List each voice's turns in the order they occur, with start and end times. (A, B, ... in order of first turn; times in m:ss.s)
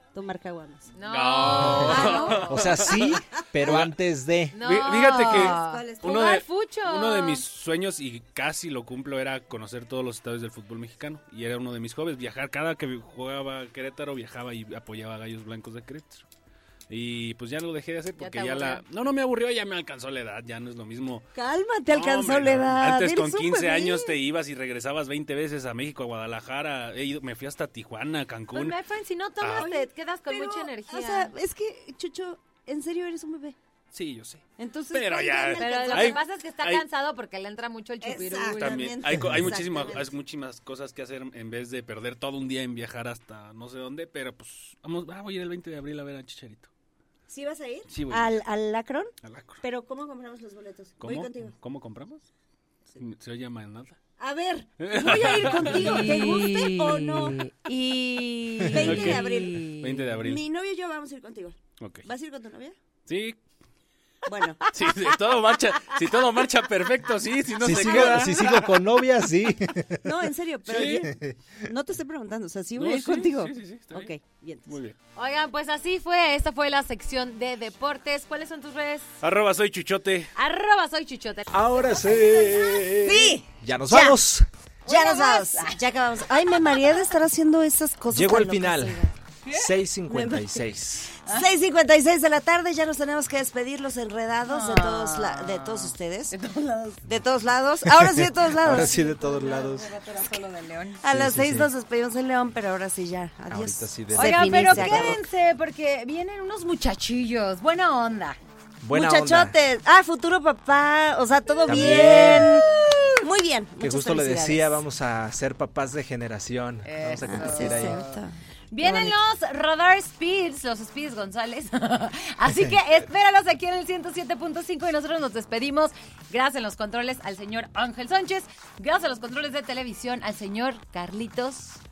0:00.1-0:00.9 A
0:00.9-0:02.8 B
0:01.0-0:03.9 C
0:01.7-0:04.5 D
0:01.8-0:02.5 A
0:04.5-0:07.4 B
0:04.6-0:16.2 C
0:05.3-0:06.3 A
0:16.9-0:21.2 C
0:18.2-0:18.8 B
0:21.3-0:24.1 A
0:21.9-0:28.8 C
0:28.5-0:31.3 B
0:29.4-0:29.7 C
0:29.5-0:33.6 A
0:33.9-0:36.8 C
0:34.6-0:36.2 A
0:35.6-0:38.9 B
0:38.0-0:40.1 A
0:38.5-0:46.7 C
0:39.2-0:39.5 D
0:47.3-0:51.5 A
0:47.9-0:48.3 C
0:49.2-0:49.6 C
0:51.0-0:52.2 C
0:53.0-0:54.0 C
0:54.2-1:02.8 A
0:54.8-0:56.2 C
0:55.6-0:57.6 B
0:58.7-1:00.4 C
0:59.2-0:59.6 B
1:01.8-1:02.1 C
1:03.1-1:03.4 C
1:04.2-1:05.1 A
1:04.7-1:08.8 C
1:07.6-1:10.1 D
1:07.9-1:08.1 A
1:10.0-1:14.7 A
1:10.7-1:11.0 C
1:11.0-1:11.6 D
1:12.8-1:14.1 C
1:14.7-1:15.0 C
1:15.2-1:19.1 B
1:19.2-1:20.3 C
1:20.3-1:22.8 B
1:21.5-1:24.5 D
1:23.0-1:24.2 A
1:24.8-1:25.8 B
1:24.8-1:29.1 A
1:28.1-1:31.1 D
1:29.6-1:30.4 B
1:31.2-1:36.3 A
1:34.4-1:37.0 B
1:37.0-1:40.2 A
1:37.8-1:39.9 D
1:38.7-1:41.0 B
1:41.0-1:45.2 A
1:41.1-1:41.7 D
1:43.5-1:45.2 D
1:44.1-1:48.4 B
1:48.8-1:49.6 D
1:48.9-1:54.8 A
1:51.6-1:52.6 D
1:51.7-1:53.1 B
1:53.8-1:58.0 D
1:56.8-2:11.8 B
1:57.3-1:59.1 A